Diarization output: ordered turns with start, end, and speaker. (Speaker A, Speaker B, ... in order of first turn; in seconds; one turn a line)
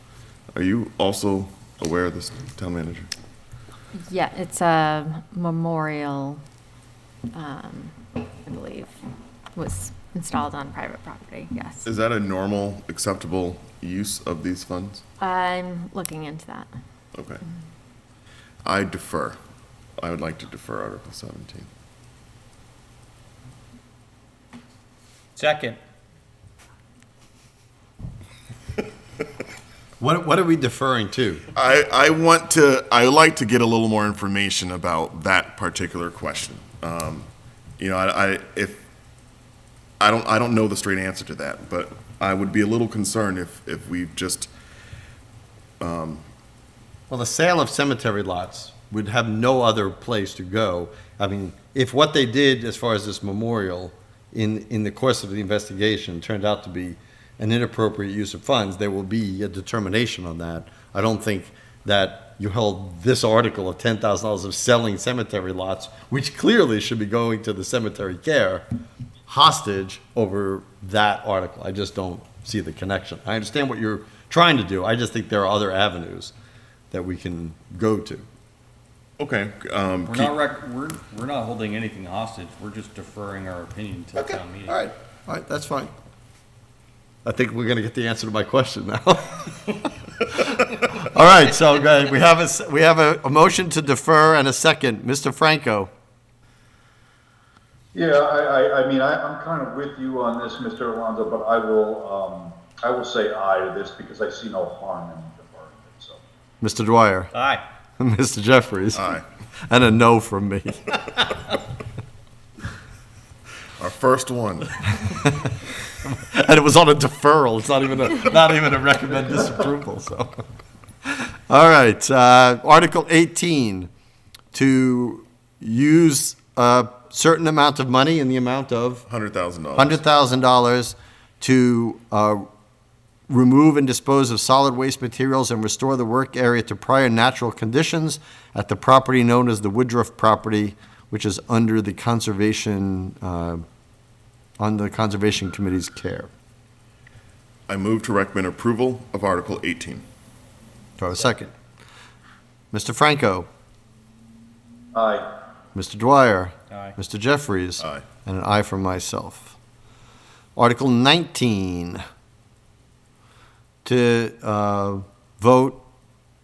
Speaker A: 0.5-3.1
Speaker B: 3.9-6.4
Speaker B: 7.3-8.9
Speaker B: 9.5-11.8
Speaker A: 11.8-15.0
Speaker B: 15.2-16.7
Speaker A: 17.1-17.4
Speaker A: 18.6-19.4
Speaker A: 20.0-21.7
Speaker C: 25.4-25.8
Speaker D: 30.0-31.4
Speaker A: 31.5-37.3
Speaker A: 37.8-38.8
Speaker A: 40.0-44.5
Speaker A: 45.8-46.2
Speaker D: 47.1-68.6
Speaker D: 69.3-76.3
Speaker D: 76.9-78.2
Speaker A: 79.2-80.3
Speaker C: 80.0-84.8
Speaker D: 84.1-85.9
Speaker D: 87.2-95.9
Speaker E: 97.9-106.2
Speaker D: 106.6-107.3
Speaker C: 107.3-107.6
Speaker D: 108.0-111.6
Speaker A: 109.0-109.2
Speaker A: 113.8-114.7
Speaker D: 115.0-120.5
Speaker D: 121.0-123.9
Speaker D: 124.5-129.1
Speaker A: 129.1-130.0
Speaker D: 129.8-132.5
Speaker D: 133.3-143.6
Speaker D: 144.6-146.3
Speaker A: 147.7-150.1
Speaker D: 151.0-151.5
Speaker D: 152.7-153.5
Speaker E: 154.9-155.2
Speaker D: 155.7-159.6
Speaker A: 157.8-158.0
Speaker D: 160.6-162.0
Speaker D: 163.8-165.8